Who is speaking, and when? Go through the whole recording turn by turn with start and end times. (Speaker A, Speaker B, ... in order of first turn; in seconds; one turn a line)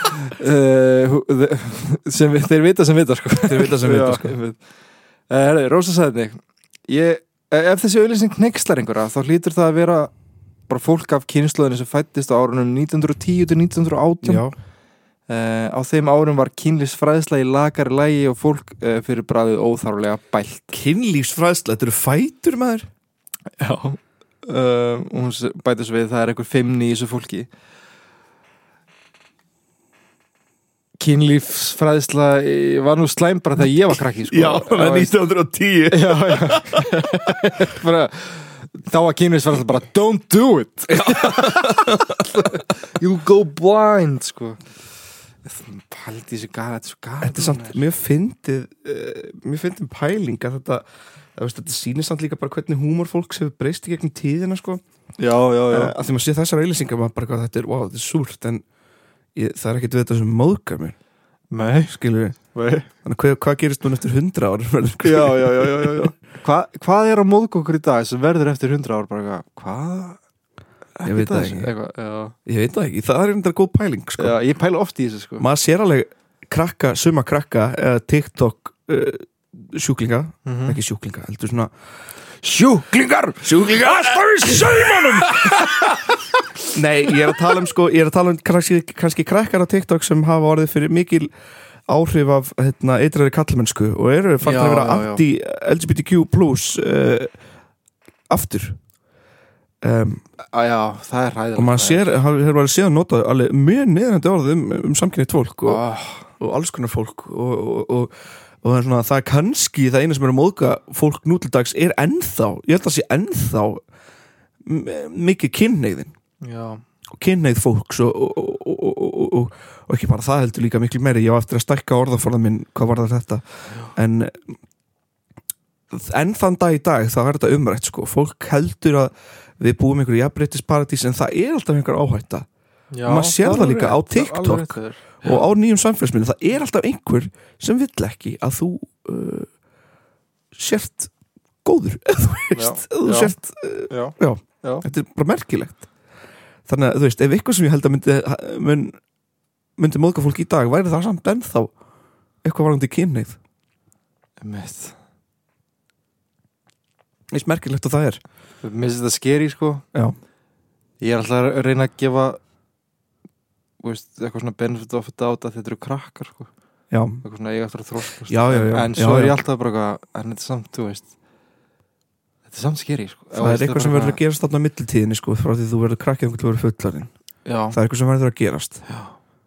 Speaker A: 0.2-4.6
Speaker B: 3.5-4.4
Speaker A: 5.3-10.1
Speaker A: 10.7-14.5
Speaker B: 14.2-14.5
Speaker A: 15.3-20.8
Speaker B: 20.7-22.9
Speaker A: 23.6-27.5
Speaker A: 31.0-35.1
Speaker B: 34.3-37.2
Speaker A: 35.9-44.6
Speaker B: 40.9-42.6
Speaker A: 45.5-47.8
Speaker B: 47.2-54.8
Speaker A: 55.2-56.0
Speaker B: 55.7-58.6
Speaker B: 59.4-61.0
Speaker A: 61.5-62.0
Speaker B: 61.9-62.4
Speaker A: 62.5-62.9
Speaker B: 63.0-66.1
Speaker A: 65.0-70.2
Speaker A: 71.0-72.3
Speaker B: 71.0-71.7
Speaker B: 72.5-74.4
Speaker A: 74.2-75.5
Speaker B: 75.4-81.7
Speaker A: 80.5-80.8
Speaker A: 82.4-86.1
Speaker B: 83.4-85.6
Speaker B: 86.7-91.3
Speaker B: 91.9-97.3
Speaker A: 94.4-95.2
Speaker B: 98.3-98.8
Speaker B: 99.8-100.2
Speaker A: 100.5-102.1
Speaker B: 101.6-105.8
Speaker A: 105.7-106.2
Speaker B: 106.4-113.8
Speaker B: 114.6-116.1
Speaker A: 116.4-116.8
Speaker B: 117.2-123.4
Speaker B: 123.9-124.4
Speaker B: 125.9-132.5
Speaker A: 132.9-135.4
Speaker B: 133.1-139.5
Speaker B: 140.6-141.1
Speaker B: 141.6-145.9
Speaker A: 142.5-143.3
Speaker A: 143.9-144.9
Speaker B: 146.7-149.0
Speaker B: 149.8-151.7
Speaker B: 152.4-153.4
Speaker A: 154.4-155.0
Speaker B: 157.3-158.2
Speaker A: 158.6-159.8
Speaker A: 161.0-162.4
Speaker A: 163.8-166.5
Speaker B: 166.9-167.2
Speaker A: 167.2-171.1
Speaker B: 168.3-169.4
Speaker A: 172.5-174.2
Speaker B: 173.3-177.1
Speaker A: 177.5-177.8
Speaker B: 177.7-178.8
Speaker A: 178.9-179.1